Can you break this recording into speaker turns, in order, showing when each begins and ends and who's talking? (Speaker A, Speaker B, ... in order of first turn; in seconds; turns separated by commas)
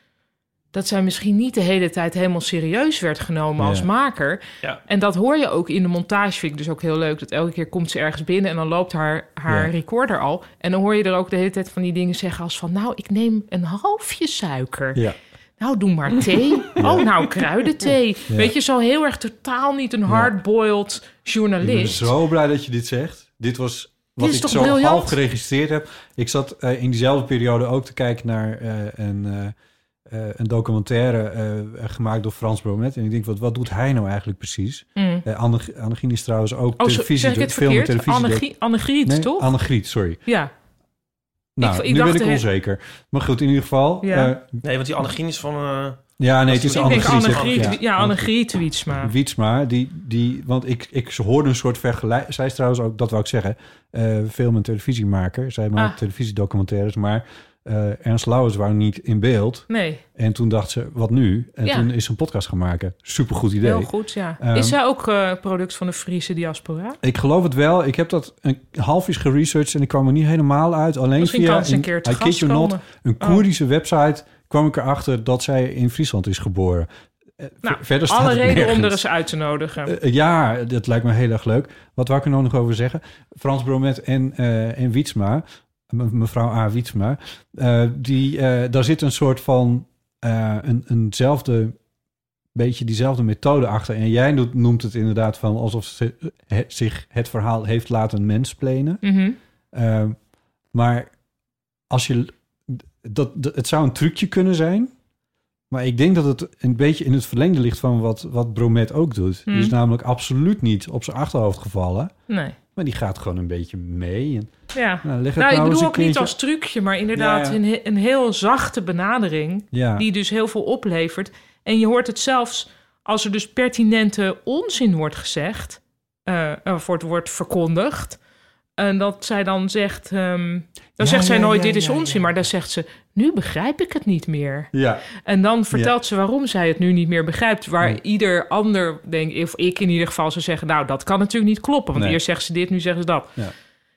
Speaker A: 0.7-15.0, Speaker B: 3.6-3.9, Speaker B: 9.5-9.7, Speaker A: 15.6-22.1, Speaker B: 16.8-17.1, Speaker B: 20.1-20.3, Speaker B: 21.6-29.5, Speaker A: 24.2-25.2, Speaker B: 30.1-38.5, Speaker A: 35.0-35.2, Speaker A: 36.8-39.5, Speaker B: 39.0-40.2, Speaker A: 40.2-40.5, Speaker B: 41.5-44.6, Speaker A: 41.6-42.4, Speaker A: 44.0-44.3, Speaker C: 44.6-47.8, Speaker B: 46.2-48.3, Speaker A: 46.7-49.1, Speaker B: 49.0-64.8, Speaker A: 59.7-60.0, Speaker A: 63.6-67.0, Speaker B: 67.0-76.9, Speaker A: 71.2-73.4, Speaker B: 77.4-79.0, Speaker A: 77.6-79.9, Speaker B: 79.8-91.7, Speaker B: 92.5-99.0, Speaker A: 99.0-99.4, Speaker B: 99.7-100.2, Speaker B: 100.7-101.1, Speaker B: 101.9-104.9, Speaker B: 105.7-112.1, Speaker A: 109.5-109.7, Speaker A: 112.3-112.5, Speaker B: 112.8-114.5, Speaker A: 114.7-128.2, Speaker B: 115.0-116.3, Speaker B: 117.1-117.6, Speaker B: 119.7-120.1, Speaker A: 128.8-134.7, Speaker B: 131.0-132.0, Speaker B: 134.7-135.0, Speaker A: 135.2-143.3, Speaker B: 141.9-142.2